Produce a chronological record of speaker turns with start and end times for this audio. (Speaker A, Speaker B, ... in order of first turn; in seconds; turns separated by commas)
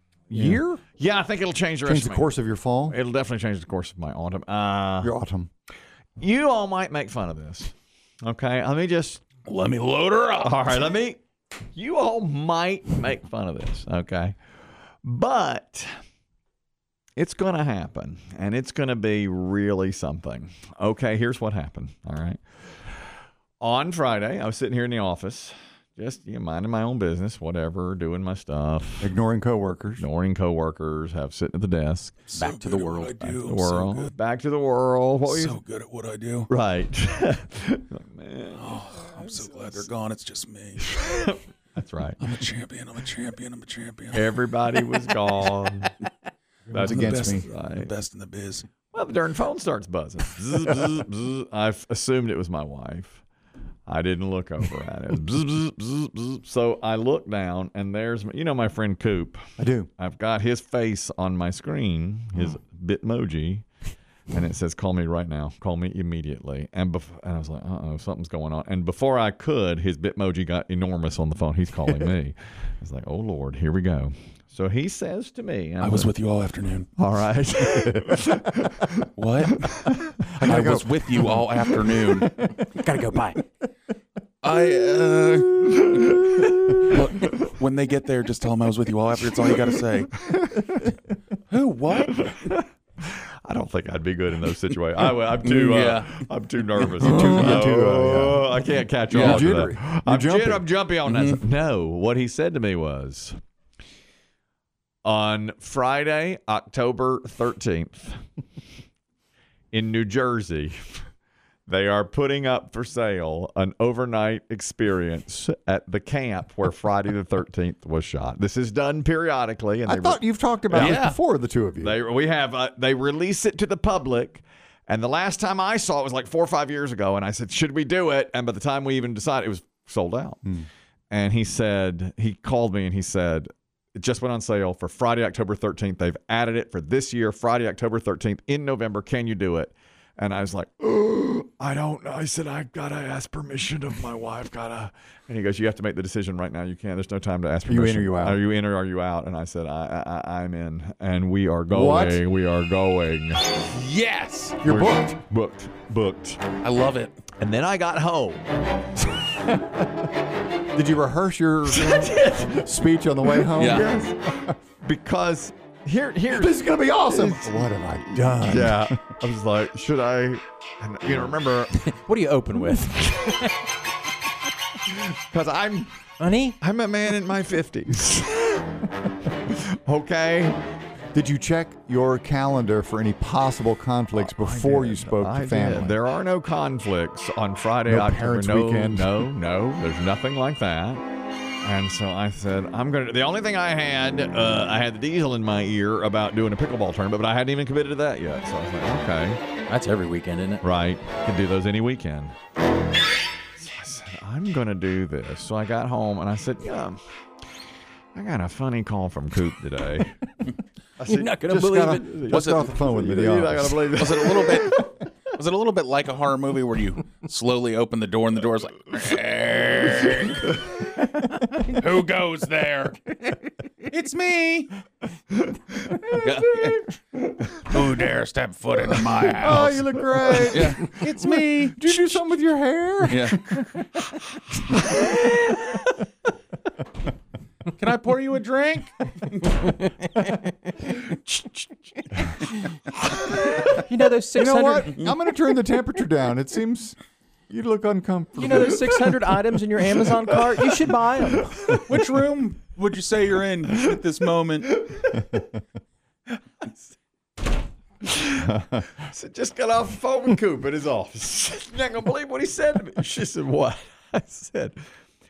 Speaker A: 0.3-0.7, Speaker B: 0.3-2.3, Speaker A: 1.8-2.9, Speaker B: 2.9-5.1, Speaker A: 5.0-5.5, Speaker B: 6.2-9.2, Speaker C: 9.5-10.7, Speaker B: 10.4-11.2, Speaker B: 11.7-14.4, Speaker B: 15.0-15.9, Speaker B: 17.2-22.4, Speaker B: 23.6-29.1, Speaker A: 29.0-30.0, Speaker B: 30.0-32.2, Speaker C: 32.3-34.1, Speaker D: 32.4-33.2, Speaker B: 33.2-35.6, Speaker C: 35.2-36.5, Speaker B: 36.5-39.9, Speaker C: 38.5-41.0, Speaker B: 40.8-42.2, Speaker C: 42.2-44.9, Speaker B: 44.1-45.9, Speaker A: 46.7-47.5, Speaker B: 46.7-47.9, Speaker C: 46.8-48.7, Speaker B: 48.9-53.2, Speaker B: 53.9-59.4, Speaker A: 59.6-59.9, Speaker B: 60.0-63.7, Speaker B: 64.3-76.1, Speaker C: 75.8-76.9, Speaker B: 77.0-79.1, Speaker A: 77.8-78.2, Speaker C: 79.2-79.6, Speaker B: 79.6-79.9, Speaker A: 80.1-82.6, Speaker C: 80.4-82.3, Speaker D: 82.7-83.4, Speaker C: 84.4-86.2, Speaker B: 85.8-86.9, Speaker C: 86.7-90.3, Speaker A: 90.3-90.8, Speaker C: 91.5-92.3, Speaker B: 92.1-103.4, Speaker C: 95.4-97.3, Speaker A: 97.0-98.5, Speaker A: 99.1-100.7, Speaker C: 99.1-99.5, Speaker C: 101.0-101.4, Speaker B: 105.0-108.2, Speaker B: 109.7-111.0, Speaker B: 111.7-121.0, Speaker A: 119.9-122.0, Speaker C: 120.8-121.2, Speaker B: 121.8-130.4, Speaker B: 131.1-153.6, Speaker A: 147.7-148.4, Speaker A: 151.7-152.2, Speaker C: 153.7-154.6, Speaker A: 154.6-155.2, Speaker B: 154.6-156.4, Speaker C: 156.6-157.2, Speaker B: 157.3-158.4, Speaker A: 160.7-164.5, Speaker B: 161.7-162.6, Speaker B: 163.4-164.2, Speaker C: 163.6-163.9, Speaker B: 164.8-167.7, Speaker A: 166.3-169.1, Speaker B: 168.4-171.8, Speaker D: 171.9-173.5, Speaker B: 174.9-175.9, Speaker D: 176.2-176.6, Speaker B: 176.6-180.6, Speaker A: 181.1-185.9, Speaker B: 184.1-191.0, Speaker A: 187.9-189.3, Speaker B: 191.6-199.4, Speaker D: 199.7-200.6, Speaker B: 200.6-202.3, Speaker B: 203.6-207.0, Speaker B: 208.2-210.2, Speaker B: 211.0-214.8, Speaker D: 211.0-212.3, Speaker A: 211.4-214.0, Speaker C: 212.3-212.8, Speaker C: 213.9-220.8, Speaker C: 221.7-223.1, Speaker C: 223.9-224.8, Speaker C: 226.1-226.9, Speaker C: 227.7-231.8, Speaker A: 229.2-233.6, Speaker C: 233.1-233.4, Speaker B: 235.0-235.5, Speaker C: 237.8-239.6, Speaker D: 239.7-240.3, Speaker D: 243.8-244.9, Speaker A: 244.3-247.0, Speaker C: 244.9-245.2, Speaker A: 247.5-249.2, Speaker D: 248.3-251.6, Speaker C: 251.9-254.8, Speaker B: 254.8-255.4, Speaker B: 256.6-256.9, Speaker B: 258.1-264.8